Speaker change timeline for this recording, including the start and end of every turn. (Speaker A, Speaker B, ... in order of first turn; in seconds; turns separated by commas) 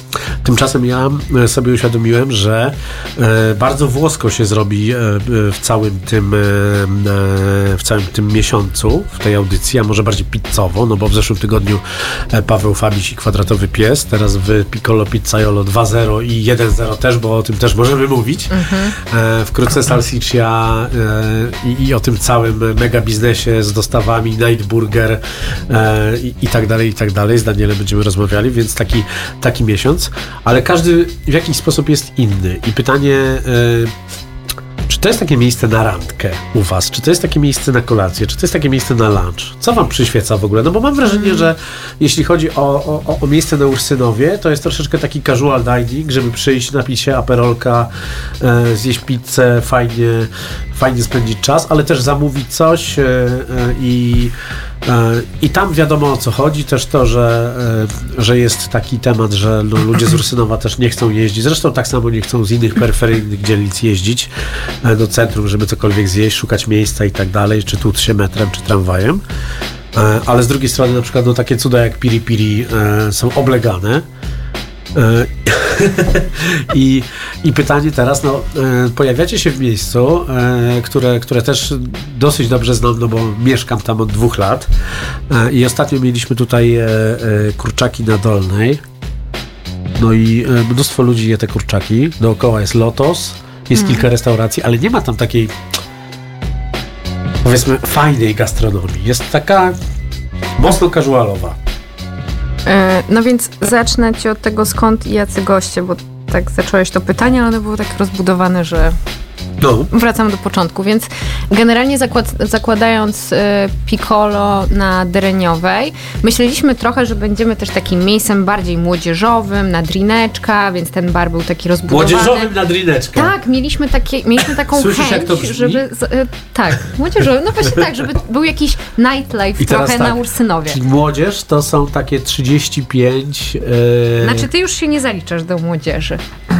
Speaker A: 0.4-33.9, Speaker B: 18.5-18.9, Speaker A: 34.9-47.9, Speaker B: 41.0-41.5, Speaker A: 48.4-64.3, Speaker A: 64.8-69.2, Speaker A: 69.9-74.0, Speaker A: 74.9-84.7, Speaker A: 85.3-88.8, Speaker A: 90.0-95.5, Speaker B: 93.7-94.1, Speaker A: 97.4-99.7, Speaker A: 100.6-101.5, Speaker B: 102.7-109.0, Speaker A: 109.6-109.9, Speaker B: 109.9-122.5, Speaker A: 121.9-123.3, Speaker B: 123.2-130.8, Speaker A: 124.7-125.8, Speaker A: 129.6-134.5, Speaker B: 134.2-136.2